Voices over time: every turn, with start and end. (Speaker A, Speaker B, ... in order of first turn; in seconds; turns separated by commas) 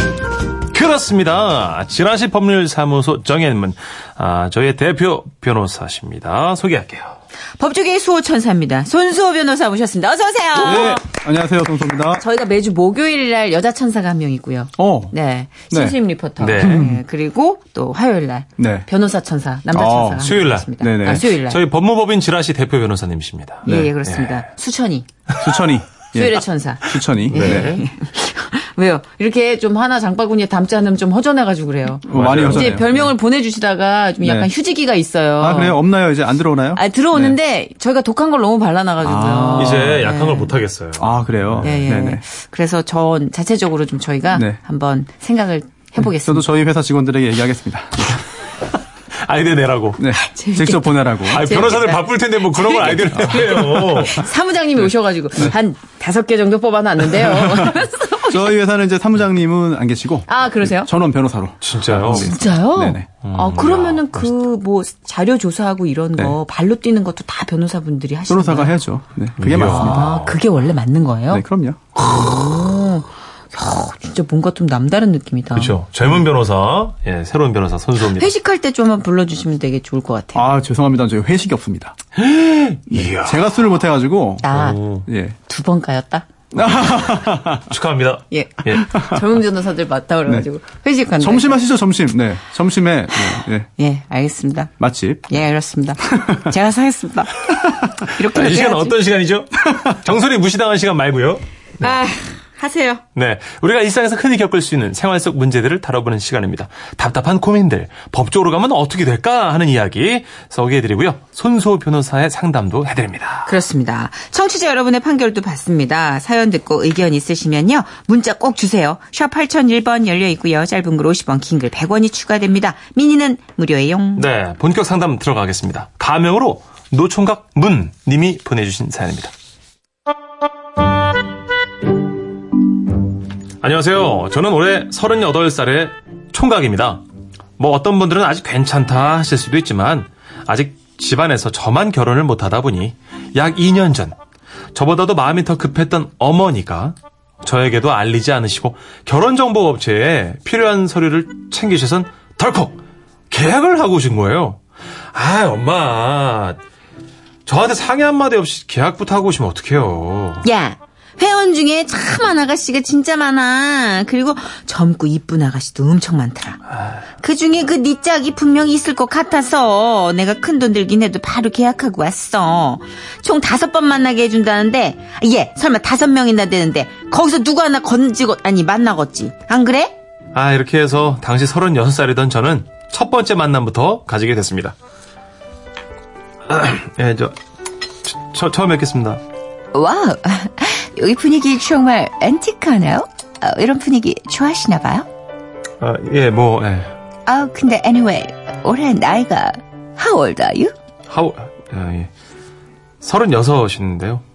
Speaker A: 0.7-7.2, Speaker B: 7.6-11.0, Speaker C: 10.5-12.2, Speaker B: 12.1-21.6, Speaker C: 14.8-15.1, Speaker C: 15.7-15.9, Speaker A: 16.4-16.9, Speaker C: 16.6-17.0, Speaker C: 18.6-18.9, Speaker C: 19.7-21.2, Speaker A: 20.2-24.4, Speaker C: 23.6-23.9, Speaker B: 23.6-25.1, Speaker C: 25.4-27.8, Speaker B: 26.1-35.8, Speaker A: 27.3-27.8, Speaker C: 32.0-33.1, Speaker A: 32.1-33.0, Speaker C: 34.2-34.5, Speaker C: 35.4-37.4, Speaker B: 36.7-40.5, Speaker C: 39.0-40.1, Speaker A: 39.5-41.8, Speaker C: 41.0-42.2, Speaker B: 41.6-46.4, Speaker C: 44.3-44.6, Speaker C: 46.0-48.2, Speaker A: 49.2-50.0, Speaker C: 50.0-51.7, Speaker B: 50.1-58.5, Speaker A: 51.2-54.2, Speaker C: 52.6-54.3, Speaker C: 57.2-63.1, Speaker B: 60.3-60.9, Speaker A: 61.6-62.3, Speaker B: 62.1-68.8, Speaker A: 63.2-64.3, Speaker C: 68.3-70.3, Speaker A: 69.4-70.3, Speaker B: 69.6-71.4, Speaker C: 71.3-71.8, Speaker B: 72.0-75.7, Speaker A: 75.5-78.3, Speaker B: 78.0-80.5, Speaker C: 80.3-81.9, Speaker A: 82.2-83.6, Speaker C: 82.9-85.3, Speaker B: 84.4-84.8, Speaker A: 84.5-85.0, Speaker B: 85.5-86.3, Speaker C: 86.5-87.7, Speaker A: 87.5-88.8, Speaker B: 88.3-91.6, Speaker C: 88.9-89.2, Speaker C: 91.2-93.7, Speaker B: 93.8-94.7, Speaker C: 94.8-95.3, Speaker B: 95.3-99.0, Speaker C: 96.1-96.5, Speaker A: 98.2-102.0, Speaker B: 101.8-103.0, Speaker A: 103.1-113.5, Speaker B: 113.5-124.3, Speaker A: 124.1-129.3, Speaker A: 133.6-137.0, Speaker A: 137.6-144.1, Speaker A: 144.7-152.8, Speaker A: 153.3-154.6, Speaker A: 155.1-156.6, Speaker A: 157.4-160.4, Speaker B: 160.4-166.6, Speaker A: 166.7-167.0, Speaker B: 167.2-179.9, Speaker A: 180.3-184.7, Speaker A: 186.5-187.3, Speaker A: 188.0-189.2, Speaker B: 189.7-195.1, Speaker A: 195.8-196.9, Speaker B: 197.2-200.7, Speaker A: 201.1-202.1, Speaker A: 203.0-204.2